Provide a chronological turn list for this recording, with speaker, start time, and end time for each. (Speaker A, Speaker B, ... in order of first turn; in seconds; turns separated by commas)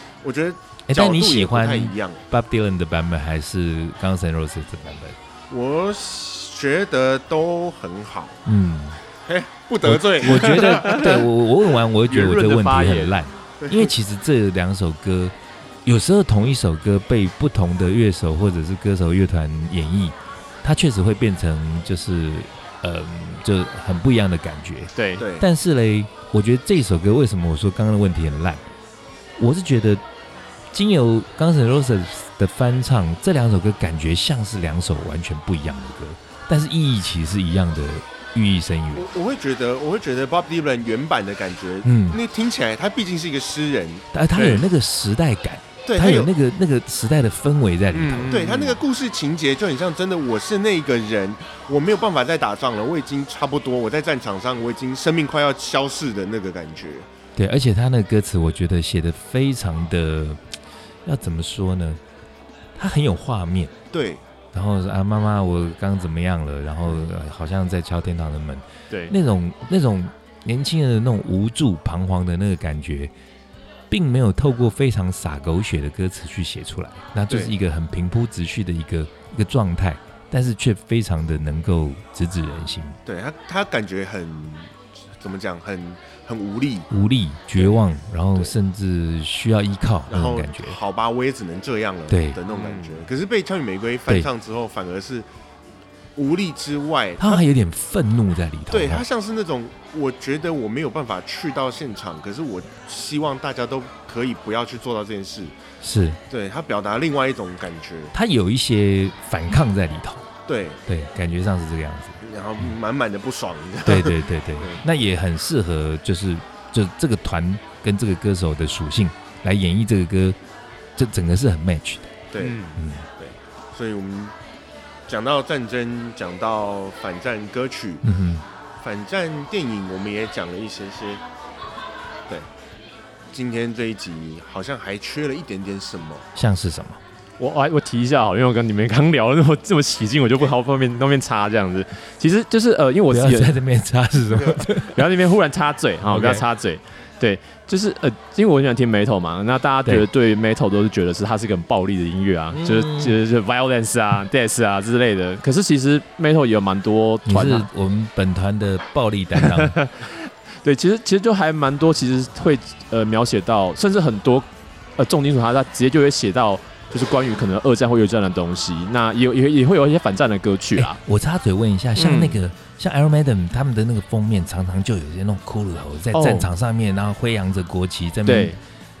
Speaker A: 0.2-2.2, Speaker B: 0.9-5.2, Speaker A: 5.5-8.4, Speaker B: 8.4-9.0, Speaker A: 9.3-11.2, Speaker B: 9.8-15.3, Speaker C: 10.4-11.0, Speaker C: 12.1-13.2, Speaker A: 13.6-13.9, Speaker B: 15.8-28.6, Speaker C: 24.9-25.2, Speaker A: 25.2-25.5, Speaker B: 29.4-30.0, Speaker B: 30.7-39.1, Speaker A: 38.9-44.6, Speaker B: 41.8-42.2, Speaker B: 44.1-48.8, Speaker A: 45.9-46.3, Speaker A: 47.9-57.1, Speaker B: 57.4-60.4, Speaker B: 61.0-62.0, Speaker B: 62.8-63.7, Speaker A: 63.9-64.2, Speaker B: 64.5-73.1, Speaker B: 73.9-83.0, Speaker A: 83.0-86.9, Speaker B: 86.9-90.8, Speaker A: 90.1-95.3, Speaker B: 92.1-92.4, Speaker C: 92.5-92.8, Speaker A: 96.2-97.4, Speaker B: 97.2-99.0, Speaker A: 98.7-105.5, Speaker B: 105.8-106.2, Speaker A: 106.3-108.1, Speaker B: 108.1-110.2, Speaker A: 110.5-110.8, Speaker B: 110.9-112.7, Speaker A: 112.2-114.8, Speaker B: 113.8-120.4, Speaker B: 121.0-123.0, Speaker A: 122.3-124.3, Speaker C: 122.4-122.8, Speaker A: 125.1-128.0, Speaker B: 128.0-128.4, Speaker A: 128.8-131.2, Speaker A: 133.3-136.2, Speaker B: 136.3-137.0, Speaker C: 137.4-143.6, Speaker B: 143.1-145.0, Speaker A: 144.3-144.6, Speaker C: 144.8-157.7, Speaker B: 146.1-146.4, Speaker B: 152.5-153.2, Speaker B: 157.2-159.8, Speaker C: 159.4-164.5, Speaker C: 165.0-171.0, Speaker B: 170.8-178.6, Speaker C: 172.0-172.4, Speaker C: 176.1-176.5, Speaker C: 178.2-178.6